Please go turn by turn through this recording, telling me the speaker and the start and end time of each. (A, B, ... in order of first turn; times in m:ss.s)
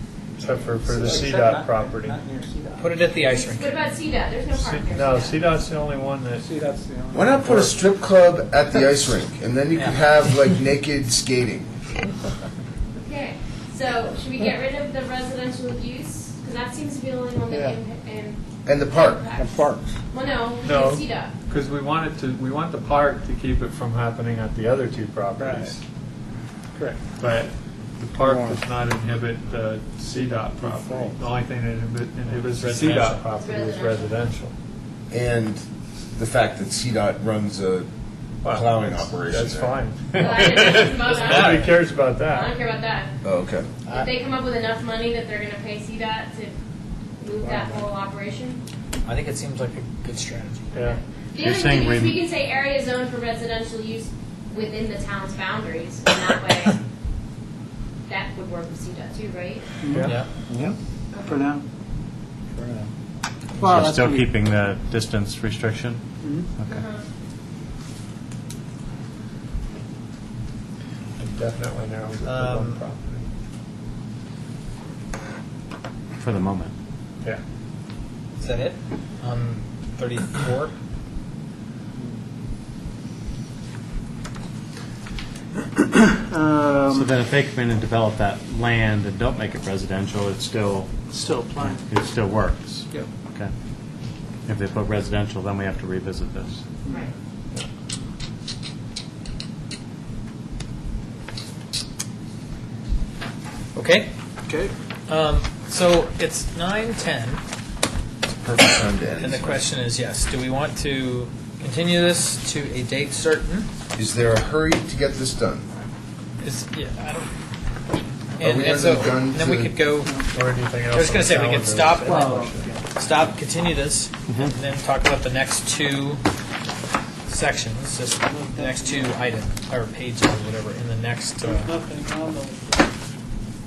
0:00.4-0:02.2 A
0:00.8-0:03.1 B
0:02.8-0:03.8 C
0:03.3-0:05.5 D
0:04.5-0:06.5 A
0:06.4-0:07.8 B
0:07.1-0:11.7 E
0:13.0-0:21.3 D
0:18.6-0:19.2 E
0:20.6-0:25.8 A
0:25.4-0:25.8 B
0:26.7-0:27.0 B
0:27.2-0:34.5 A
0:28.2-0:28.6 F
0:30.1-0:31.2 B
0:32.5-0:33.2 C
0:33.3-0:34.3 D
0:35.1-0:35.6 E
0:36.1-0:37.9 E
0:38.4-0:40.1 A
0:38.4-0:39.8 E
0:40.1-0:43.1 D
0:40.3-0:41.7 C
0:41.1-0:42.6 A
0:43.2-0:43.7 E
0:43.9-0:46.5 D
0:47.2-0:48.6 D
0:47.4-0:47.9 B
0:49.0-0:50.7 C
0:50.7-0:51.0 A
0:51.3-0:56.8 D
0:51.4-0:52.2 F
0:58.1-0:59.8 D
0:59.8-1:01.6 B
0:59.9-1:00.2 A
1:03.6-1:04.3 B
1:03.7-1:06.0 F
1:06.2-1:06.5 B
1:06.7-1:07.0 D
1:11.2-1:13.3 A
1:12.2-1:12.8 C
1:16.2-1:16.7 F
1:18.4-1:20.7 C
1:25.8-1:27.1 B
1:27.0-1:30.9 F
1:31.1-1:31.8 B
1:31.9-1:33.5 F
1:34.4-1:36.6 F
1:36.8-1:37.1 B
1:36.9-1:37.1 D
1:43.7-1:44.1 C
1:44.5-1:44.7 B
1:45.1-1:47.4 C
1:48.3-1:49.6 E
1:49.2-1:53.7 C
1:54.0-1:55.7 E
1:56.4-1:57.3 C
1:58.4-2:00.1 C
1:58.4-1:59.8 E
2:00.0-2:00.3 B
2:00.3-2:02.7 A
2:00.9-2:02.3 C
2:02.0-2:02.9 B
2:02.9-2:06.2 C
2:07.3-2:11.7 C
2:08.2-2:09.2 B
2:11.4-2:12.9 B